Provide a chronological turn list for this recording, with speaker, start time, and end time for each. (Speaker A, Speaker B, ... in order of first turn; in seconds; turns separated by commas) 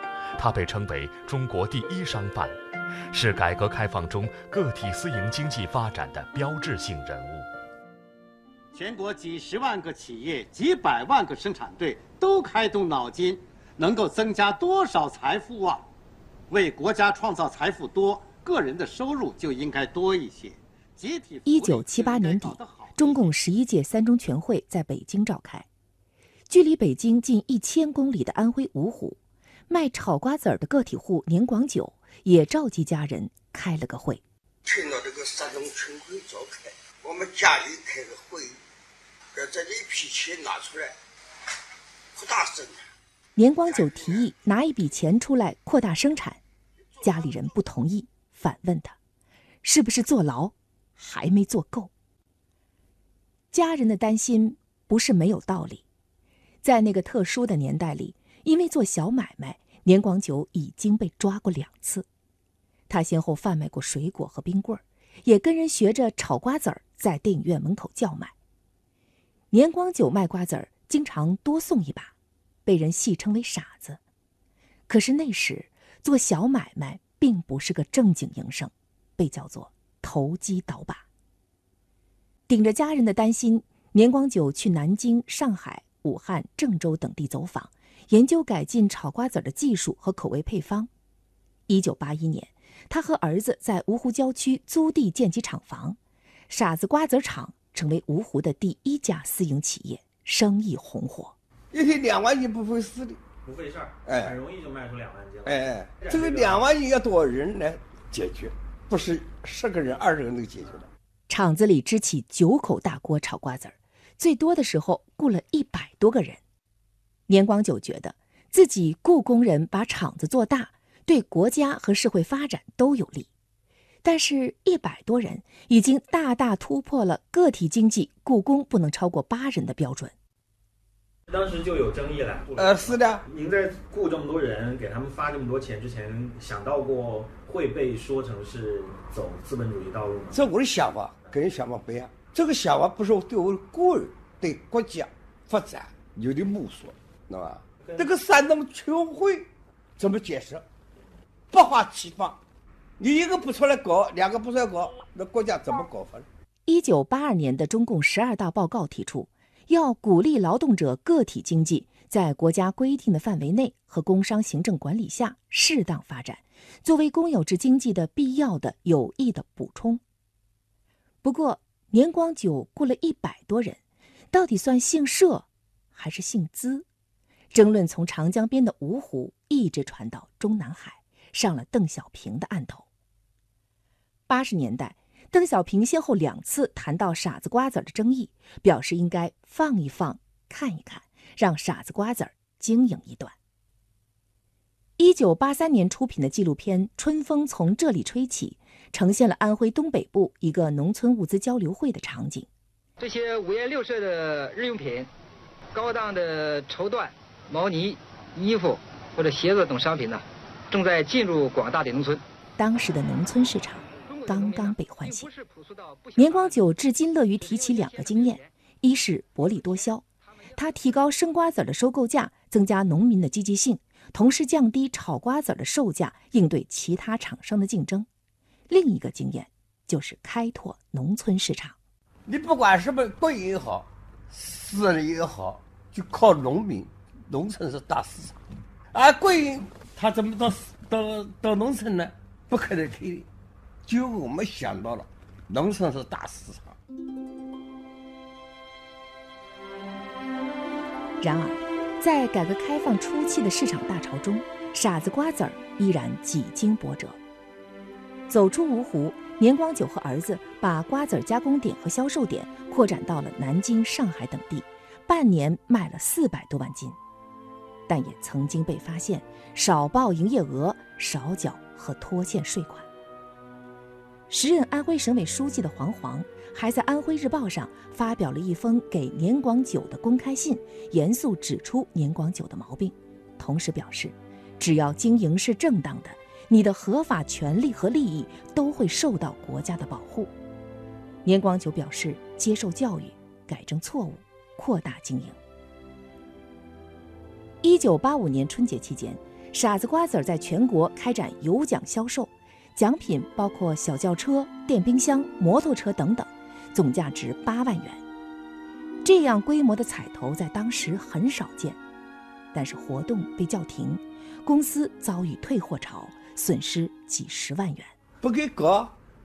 Speaker A: 0.4-2.5, Speaker A: 3.1-7.5, Speaker B: 8.7-15.9, Speaker B: 16.5-23.5, Speaker C: 21.4-25.7, Speaker C: 26.5-29.2, Speaker C: 29.7-34.2, Speaker D: 34.7-38.6, Speaker D: 39.4-40.9, Speaker D: 42.2-42.8, Speaker C: 43.3-46.4, Speaker C: 47.0-49.0, Speaker C: 49.6-51.9, Speaker C: 53.5-55.8, Speaker C: 56.6-62.0, Speaker C: 62.9-68.3, Speaker C: 69.5-72.1, Speaker C: 72.6-74.0, Speaker C: 74.9-81.0, Speaker C: 82.5-90.9, Speaker C: 91.7-96.0, Speaker C: 96.5-101.3, Speaker D: 101.7-103.2, Speaker E: 103.4-106.7, Speaker D: 104.0-104.4, Speaker D: 105.4-110.9, Speaker C: 111.3-116.4, Speaker C: 117.3-123.3, Speaker C: 124.0-130.1, Speaker E: 131.3-140.5, Speaker D: 132.5-133.2, Speaker D: 140.3-150.7, Speaker E: 147.8-148.1, Speaker D: 151.5-152.4, Speaker D: 153.0-156.2, Speaker C: 156.7-170.0, Speaker C: 171.2-173.8, Speaker C: 174.3-176.8, Speaker C: 177.5-182.8, Speaker C: 184.3-193.3, Speaker C: 195.0-202.5, Speaker F: 203.0-205.1, Speaker F: 205.7-212.2, Speaker C: 212.6-215.3, Speaker F: 213.8-216.7, Speaker C: 216.2-220.1, Speaker F: 217.3-218.6, Speaker F: 219.4-220.9, Speaker C: 220.6-228.1, Speaker C: 228.7-231.8, Speaker D: 232.3-238.4, Speaker D: 238.9-243.3, Speaker D: 243.8-246.8, Speaker C: 251.2-257.2, Speaker C: 258.3-267.0, Speaker C: 267.9-272.9, Speaker C: 274.3-290.3, Speaker C: 291.2-295.4, Speaker C: 297.6-308.0, Speaker C: 309.0-311.8, Speaker C: 312.5-317.9, Speaker D: 318.2-318.9